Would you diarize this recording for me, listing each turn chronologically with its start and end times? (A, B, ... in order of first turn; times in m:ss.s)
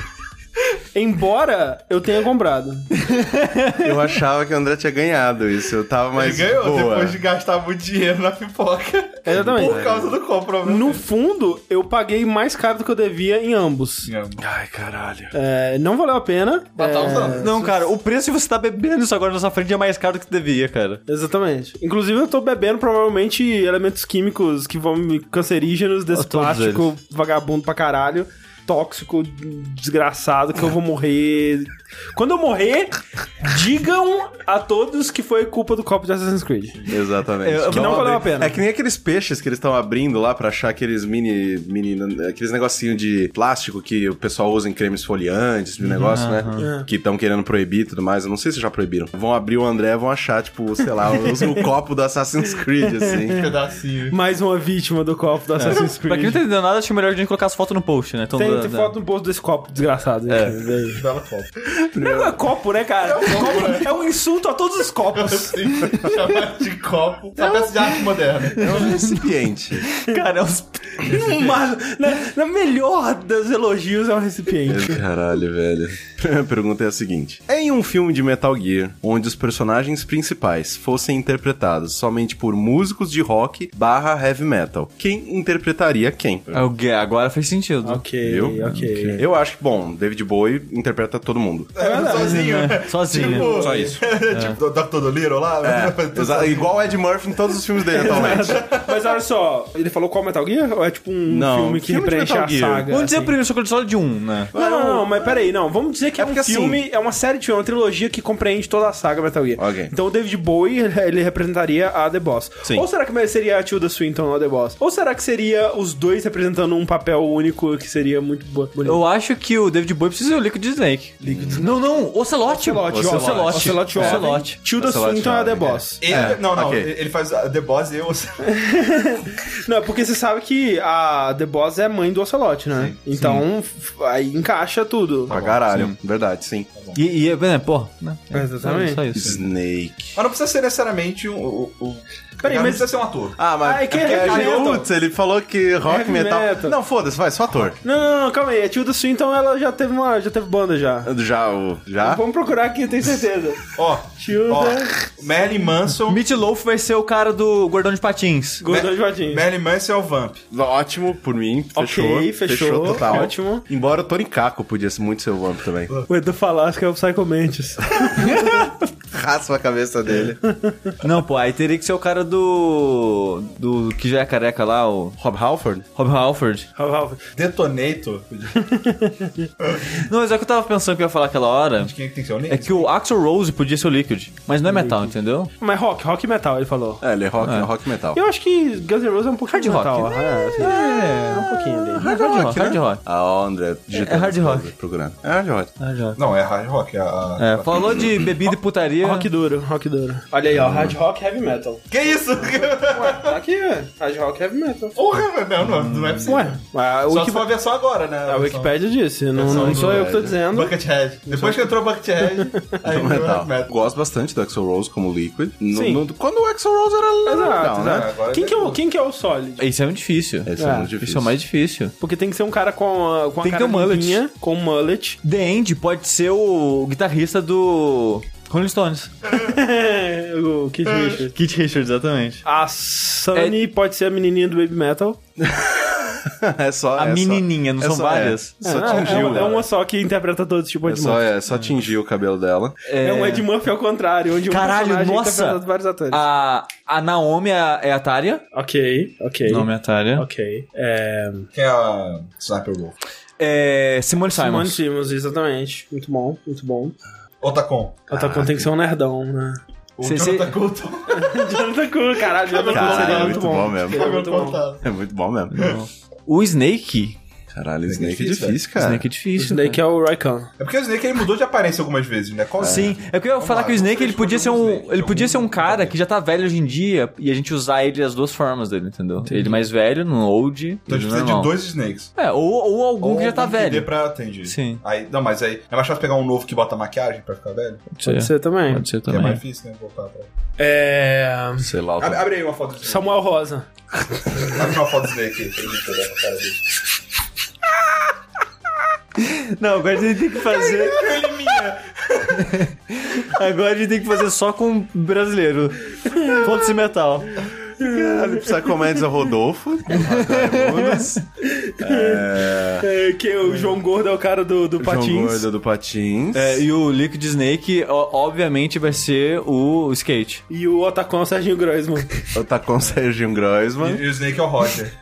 0:00.9-0:03.0 A
0:03.0-0:03.8 B
0:03.8-0:07.2 C
0:06.1-0:11.0 D
0:09.2-0:09.8 A
0:10.6-0:14.1 A
0:14.0-0:14.4 D
0:14.5-0:15.3 C
0:14.7-0:15.3 B
0:15.3-0:17.8 A
0:16.8-0:17.5 D
0:17.4-0:21.0 B
0:21.1-0:36.9 A
0:26.1-0:26.9 B
0:36.9-0:53.4 C
0:37.4-0:38.2 B
0:37.7-0:38.6 A
0:45.9-0:46.7 B
0:46.6-0:46.9 A
0:51.2-0:51.7 A
0:52.8-0:53.4 A
0:53.3-0:54.2 D
0:54.1-0:56.4 A
0:55.6-0:58.9 B
0:58.4-1:01.0 A
1:00.3-1:00.6 B
1:01.0-1:01.6 D
1:02.0-1:05.7 A
1:02.0-1:02.3 C
1:03.0-1:03.9 D
1:05.1-1:08.8 D
1:08.6-1:09.9 C
1:08.7-1:09.1 A
1:09.8-1:11.4 B
1:11.0-1:15.0 A
1:14.7-1:26.7 C
1:26.5-1:28.0 B
1:27.8-1:29.2 A
1:28.2-1:31.7 C
1:31.8-1:37.0 D
1:31.8-1:34.0 A
1:32.2-1:33.6 B
1:33.6-1:34.0 C
1:34.3-1:34.6 B
1:35.6-1:38.6 C
1:37.9-1:43.4 A
1:38.0-1:39.1 D
1:41.3-1:42.9 C
1:42.9-1:44.5 B
1:44.5-1:45.4 C
1:44.5-1:59.0 A
1:46.2-1:46.8 C
1:49.6-1:49.9 C
1:58.8-2:04.6 B
2:01.2-2:01.6 C
2:02.5-2:06.0 A
2:02.9-2:06.9 C
2:06.0-2:08.4 D
2:08.5-2:15.4 A
2:13.2-2:13.4 B
2:15.3-2:15.7 D
2:15.3-2:16.7 C
2:15.7-2:16.0 B
2:16.9-2:19.4 B
2:18.3-2:19.0 A
2:19.2-2:19.5 D
2:19.2-2:20.1 C
2:20.2-2:24.9 D
2:22.4-2:22.9 A
2:23.4-2:27.8 C
2:23.6-2:24.9 A
2:25.9-2:26.8 A
2:27.8-2:31.1 A
2:31.0-2:32.2 C
2:32.0-2:35.0 A
2:33.8-2:36.2 D
2:36.1-2:38.6 B
2:38.6-2:39.4 A
2:38.7-2:40.4 D
2:40.5-2:45.9 C
2:41.8-2:43.6 A
2:46.1-2:48.7 A
2:48.2-2:50.4 C
2:50.1-2:50.9 A
2:51.0-2:55.2 B
2:55.2-2:55.9 C
2:56.0-2:56.7 B
2:56.8-2:57.2 A
2:57.4-2:58.6 D
2:58.6-2:59.5 A
2:59.6-3:00.0 D
3:00.0-3:01.9 B
3:01.8-3:02.9 D
3:02.5-3:05.5 B
3:04.7-3:07.0 A
3:07.0-3:08.2 C
3:07.4-3:07.7 B
3:08.1-3:12.1 A
3:09.5-3:13.0 B
3:11.9-3:15.7 C
3:13.9-3:14.7 B
3:15.8-3:16.2 B
3:16.2-3:18.1 D
3:17.4-3:19.3 B
3:19.0-3:25.0 A
3:20.5-3:21.0 C
3:21.9-3:23.4 D
3:25.0-3:28.7 D
3:25.7-3:26.2 B
3:26.2-3:27.5 A
3:28.3-3:30.7 A
3:29.3-3:33.7 D
3:29.4-3:30.4 C
3:31.3-3:31.7 A
3:32.2-3:32.8 A
3:32.9-3:38.1 C
3:35.7-3:36.0 A
3:37.2-3:39.6 A
3:37.6-3:38.8 D
3:39.6-3:41.9 B
3:40.5-3:41.4 C
3:40.6-3:40.9 A
3:42.0-3:45.2 A
3:43.4-3:44.2 B
3:45.2-3:49.1 B
3:49.3-3:51.4 A
3:50.9-3:51.2 D
3:51.3-3:52.4 B
3:52.4-3:55.2 A
3:55.4-3:59.6 C
3:57.0-3:59.6 B
3:58.6-4:01.2 A
4:00.9-4:02.8 C
4:02.8-4:03.5 B
4:03.0-4:06.2 A
4:04.5-4:08.4 B
4:08.5-4:11.5 A
4:09.5-4:10.3 B
4:11.6-4:13.0 D
4:13.4-4:14.8 B
4:14.3-4:17.0 A
4:17.4-4:18.0 D
4:18.1-4:18.7 C
4:18.1-4:19.6 A
4:20.0-4:21.7 D
4:20.0-4:20.5 B
4:21.1-4:24.6 A
4:22.4-4:24.9 D
4:22.7-4:24.2 C
4:24.8-4:25.7 C
4:25.5-4:27.2 B
4:27.5-4:29.1 C
4:27.9-4:28.6 D
4:28.8-4:29.8 B
4:29.4-4:30.5 A
4:30.6-4:36.0 D
4:32.6-4:41.5 B
4:32.6-4:32.9 C
4:39.2-4:39.6 A
4:40.9-4:42.1 D
4:42.2-4:43.9 B
4:43.0-4:47.8 D
4:44.5-4:44.8 B
4:47.9-4:49.4 B
4:48.0-4:48.9 A
4:49.1-4:50.3 D
4:50.6-4:51.7 A
4:51.6-4:52.2 C
4:52.0-4:53.1 D
4:52.8-4:53.7 A
4:54.4-4:56.6 D
4:59.2-5:01.1 B
5:00.5-5:02.5 D
5:02.4-5:07.5 B
5:07.8-5:11.2 C
5:07.8-5:08.8 A
5:09.9-5:11.2 B
5:11.4-5:15.5 A
5:11.8-5:12.9 C
5:14.8-5:16.6 C
5:16.3-5:20.4 B
5:20.5-5:22.3 A
5:22.4-5:24.0 C
5:23.8-5:24.9 D